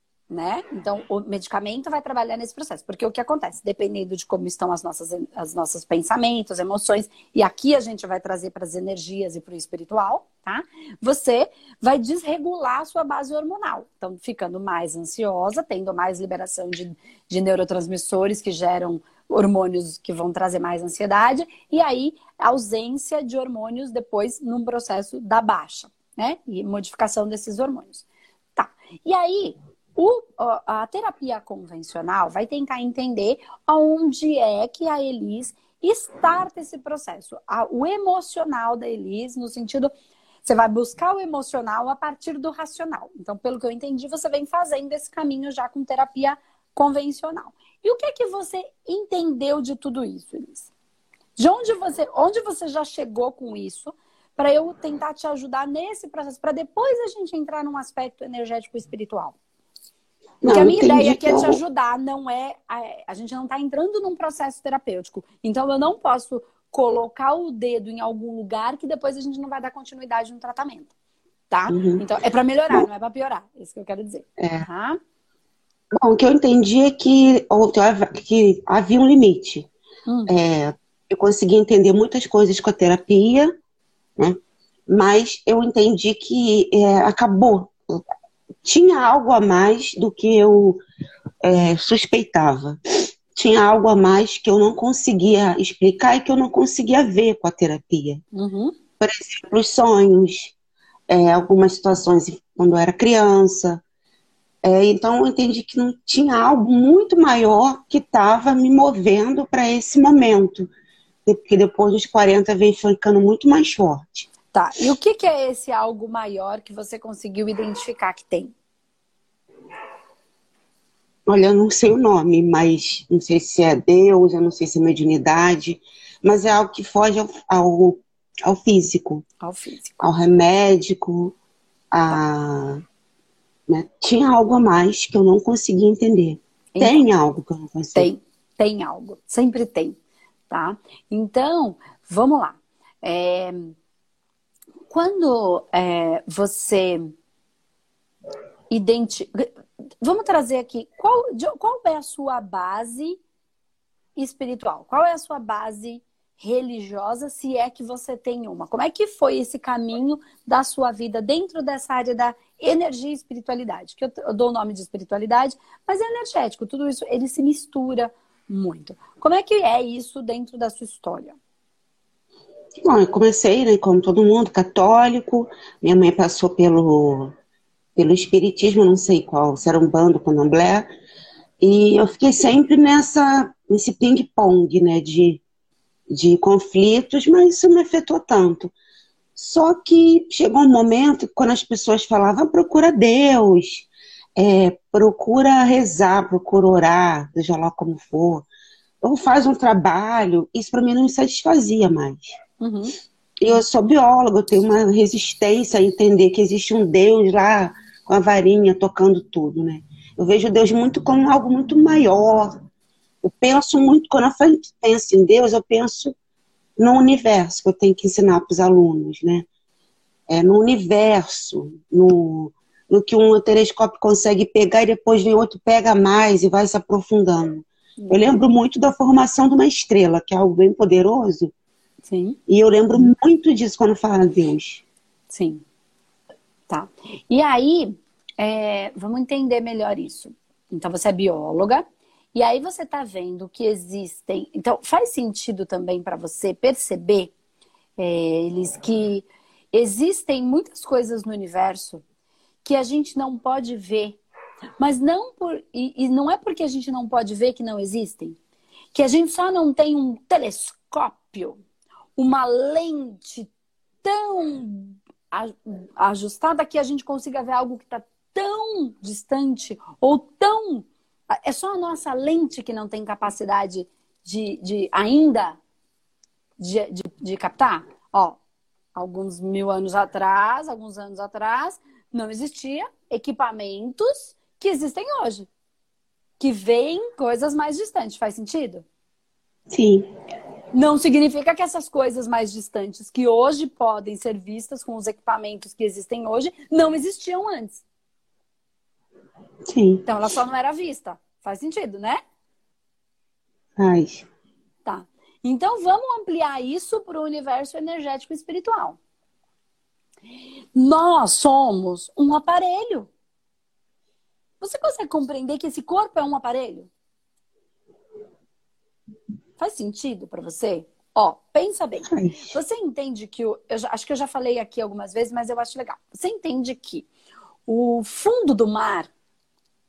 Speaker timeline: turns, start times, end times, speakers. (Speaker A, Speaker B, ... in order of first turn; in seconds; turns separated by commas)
Speaker A: 0.3-39.9, Speaker A: 40.5-50.7, Speaker A: 51.4-59.4, Speaker B: 60.4-61.6, Speaker A: 60.5-70.9, Speaker A: 71.5-75.0, Speaker B: 71.7-72.0, Speaker B: 74.4-74.7, Speaker B: 76.0-79.7, Speaker A: 80.1-80.3, Speaker B: 80.3-83.5, Speaker B: 84.2-88.0, Speaker B: 88.6-90.8, Speaker B: 91.4-92.8, Speaker B: 93.3-98.2, Speaker A: 98.3-98.7, Speaker B: 99.0-100.5, Speaker B: 101.1-103.8, Speaker B: 104.6-110.7, Speaker B: 111.3-114.3, Speaker A: 114.5-118.5, Speaker B: 121.3-129.2, Speaker A: 129.4-130.0, Speaker B: 130.0-131.3, Speaker B: 131.9-132.8, Speaker B: 133.7-138.1, Speaker A: 136.8-137.1, Speaker A: 137.9-140.0, Speaker A: 140.5-143.8, Speaker A: 144.9-147.1, Speaker A: 148.7-149.5, Speaker A: 150.0-153.2, Speaker A: 154.2-171.4, Speaker B: 172.8-177.3, Speaker B: 178.0-180.9, Speaker B: 181.6-185.4, Speaker B: 186.1-188.7, Speaker B: 189.4-198.5, Speaker B: 199.0-202.3, Speaker A: 202.6-202.9, Speaker B: 203.4-212.5, Speaker B: 213.2-216.2, Speaker B: 216.8-219.5, Speaker B: 220.3-231.5, Speaker A: 228.0-228.4, Speaker A: 232.1-232.4, Speaker B: 232.5-234.8, Speaker A: 235.3-235.6, Speaker A: 236.7-247.3, Speaker A: 248.0-252.0, Speaker A: 252.6-254.2, Speaker A: 254.8-258.4, Speaker A: 258.9-261.6, Speaker A: 262.2-263.5, Speaker A: 264.0-275.6, Speaker A: 276.6-278.4, Speaker A: 278.9-285.5, Speaker A: 286.4-288.9, Speaker B: 289.7-290.1, Speaker A: 290.7-297.8, Speaker B: 299.7-300.1, Speaker A: 300.1-302.2, Speaker B: 303.8-304.3, Speaker A: 304.9-309.0, Speaker A: 310.8-313.1, Speaker A: 314.6-316.9, Speaker A: 319.6-327.1, Speaker B: 322.1-322.6, Speaker A: 327.7-329.1